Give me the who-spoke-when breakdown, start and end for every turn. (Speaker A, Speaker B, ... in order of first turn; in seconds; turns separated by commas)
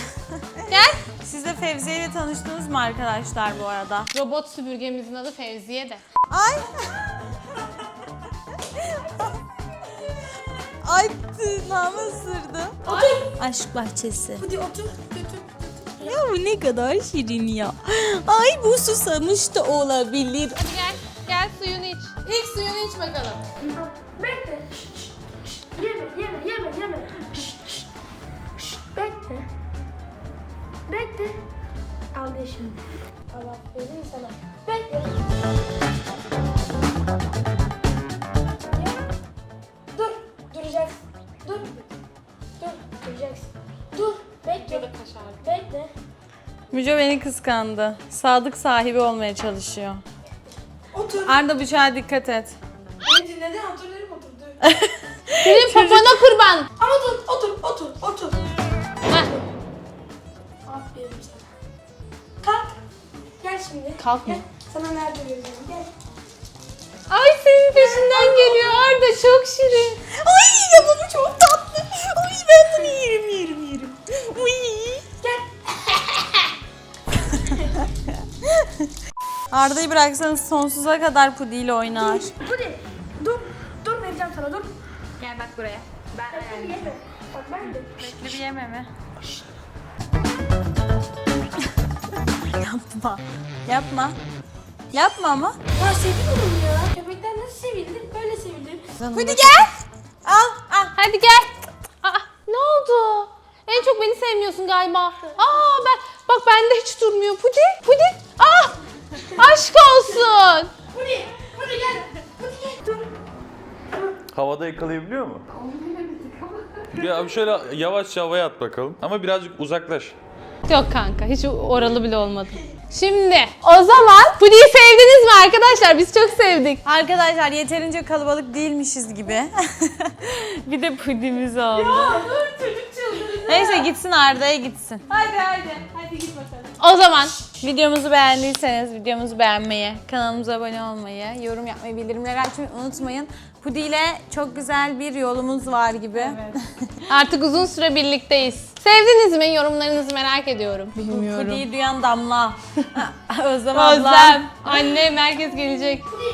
Speaker A: 0.3-4.1, Speaker B: 0.7-1.0, Speaker B: 4.1-6.0, Speaker A: 6.3-7.2, Speaker A: 8.5-9.4, Speaker A: 10.7-14.4, Speaker C: 12.9-13.3, Speaker C: 14.4-16.2, Speaker A: 16.0-20.6, Speaker B: 20.6-23.4, Speaker C: 23.7-27.9, Speaker C: 28.6-29.5, Speaker C: 30.9-31.4, Speaker C: 32.1-35.3, Speaker C: 38.7-39.0, Speaker C: 39.9-41.9, Speaker C: 42.6-44.9, Speaker B: 44.6-45.5, Speaker C: 45.4-45.9, Speaker A: 46.7-50.0, Speaker C: 50.9-51.4, Speaker A: 51.2-52.6, Speaker C: 53.0-54.6, Speaker A: 54.6-56.2, Speaker B: 55.4-56.7, Speaker C: 56.8-58.4, Speaker C: 59.2-59.6, Speaker C: 60.6-61.5, Speaker C: 62.4-62.8, Speaker C: 63.4-65.9, Speaker B: 64.0-64.4, Speaker B: 67.1-70.0, Speaker C: 67.8-68.9, Speaker A: 70.2-75.0, Speaker C: 71.0-71.8, Speaker C: 75.2-76.5, Speaker A: 77.3-78.9, Speaker A: 79.5-82.3, Speaker C: 82.0-84.7, Speaker A: 85.2-86.9, Speaker C: 86.3-88.0, Speaker A: 87.8-88.9, Speaker A: 92.3-94.2, Speaker A: 94.9-95.6, Speaker C: 95.8-98.9, Speaker B: 99.0-99.7, Speaker A: 99.1-99.7, Speaker A: 100.2-101.0, Speaker B: 101.0-110.7, Speaker C: 110.9-113.1, Speaker D: 114.3-115.4, Speaker C: 115.7-116.4, Speaker D: 116.9-120.2, Speaker B: 120.7-126.8, Speaker A: 126.8-132.2, Speaker C: 131.8-133.7, Speaker A: 133.4-135.1, Speaker B: 135.1-137.4, Speaker A: 137.6-146.9, Speaker B: 146.2-146.5, Speaker B: 147.1-151.6, Speaker A: 150.9-154.9, Speaker B: 153.7-156.1